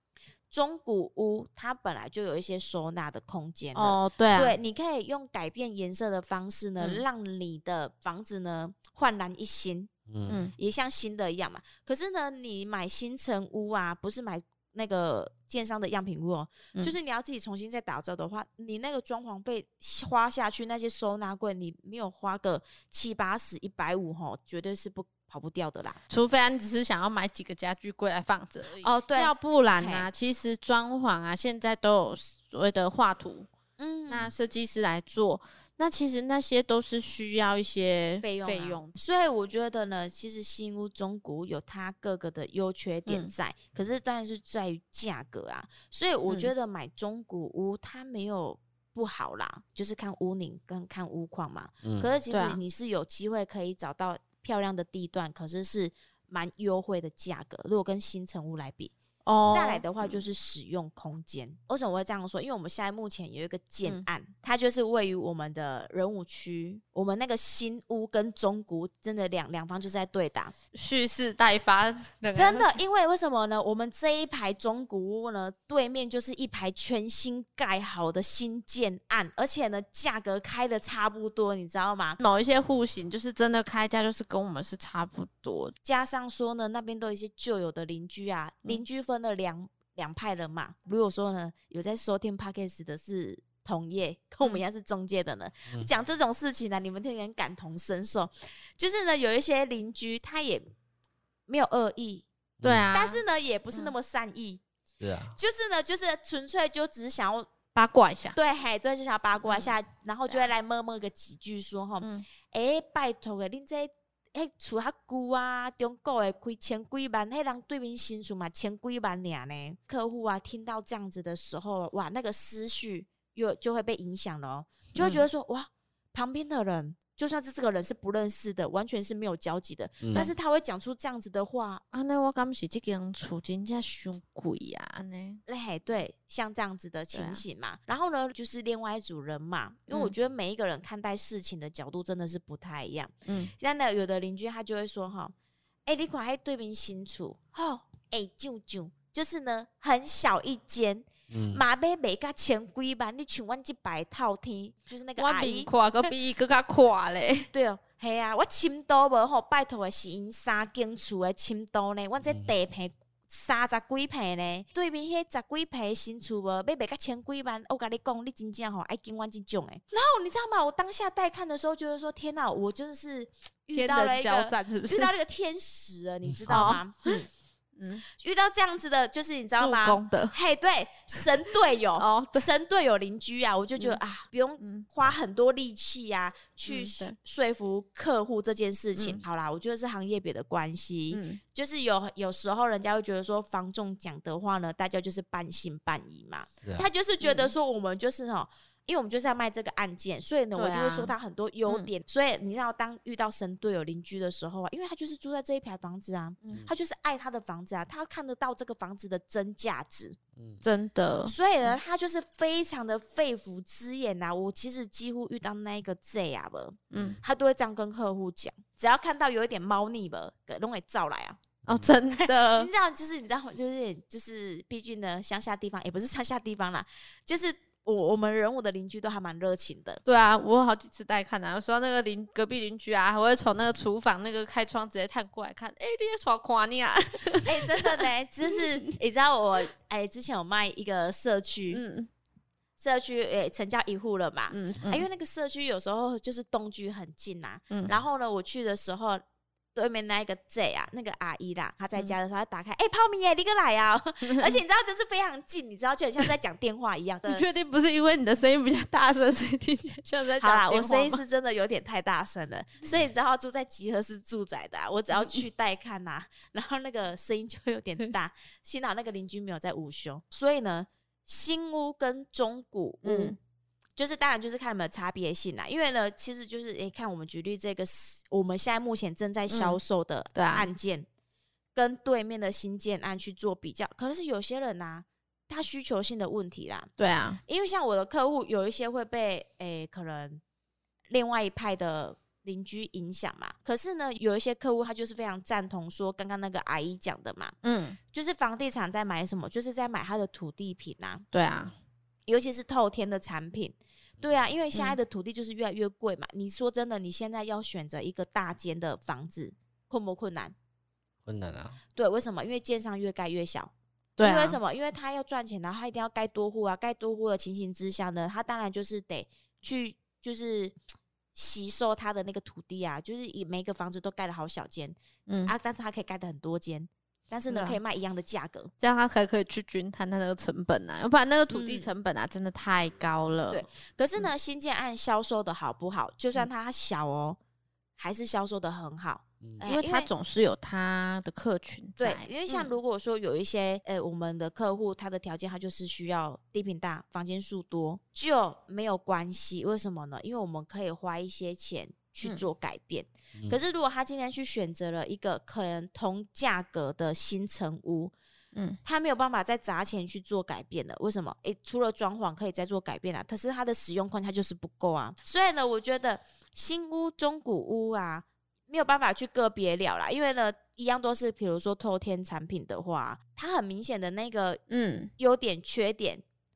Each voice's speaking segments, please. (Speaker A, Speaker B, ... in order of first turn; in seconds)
Speaker A: 0.5-9.9, 10.5-26.0, 28.8-30.1, 33.8-34.3, 38.2-58.9, 59.5-70.5, 72.3-82.2, 85.8-100.7, 101.5-102.2, 102.9-104.6, 105.3-107.5, 108.3-131.8, 135.5-145.3, 145.9-156.1, 157.5-177.3, 178.2-210.2, 211.2-221.4, 222.1-230.0, 237.4-241.8, 242.8-249.2, 249.7-257.4, 260.4-273.4, 274.0-281.1, 281.8-286.9, 287.5-290.4, 291.1-297.6, 298.1-301.2, 302.3-310.5, 311.9-320.8, 321.4-328.7, 331.5-331.9, 333.5-337.4, 338.0-340.1, 342.0-358.1, 358.9-374.6, 375.2-376.2
Speaker B: 3.8-4.6, 10.3-10.5, 26.1-33.5, 34.1-38.9, 43.1-43.3, 52.3-52.6, 59.2-60.2, 70.7-72.8, 82.2-85.7, 102.6-103.2, 107.7-108.4, 109.4-109.7, 112.0-112.3, 125.0-125.2, 131.9-135.4, 137.1-137.4, 155.2-157.5, 173.7-175.1, 176.5-177.2, 177.8-178.0, 179.6-180.3, 182.0-182.5, 184.6-184.9, 186.7-187.2, 189.0-189.2, 191.1-191.4, 197.2-197.5, 200.6-201.1, 206.4-206.7, 210.6-211.8, 216.9-217.2, 221.7-222.7, 230.1-238.1, 241.7-242.1, 244.5-245.1, 247.7-248.0, 254.2-254.6, 257.3-261.2, 265.1-265.4, 273.0-273.4, 279.5-279.8, 280.4-280.7, 287.0-287.4, 297.6-298.0, 301.3-301.7, 314.2-314.6, 325.3-325.5, 327.5-327.8, 328.8-333.6, 339.6-342.7, 374.7-375.1
Speaker C: 10.1-10.4, 51.8-52.1, 102.6-102.9, 105.0-105.3, 130.0-130.3, 151.3-151.6, 162.2-162.5, 210.4-210.6, 221.7-221.9, 311.2-311.8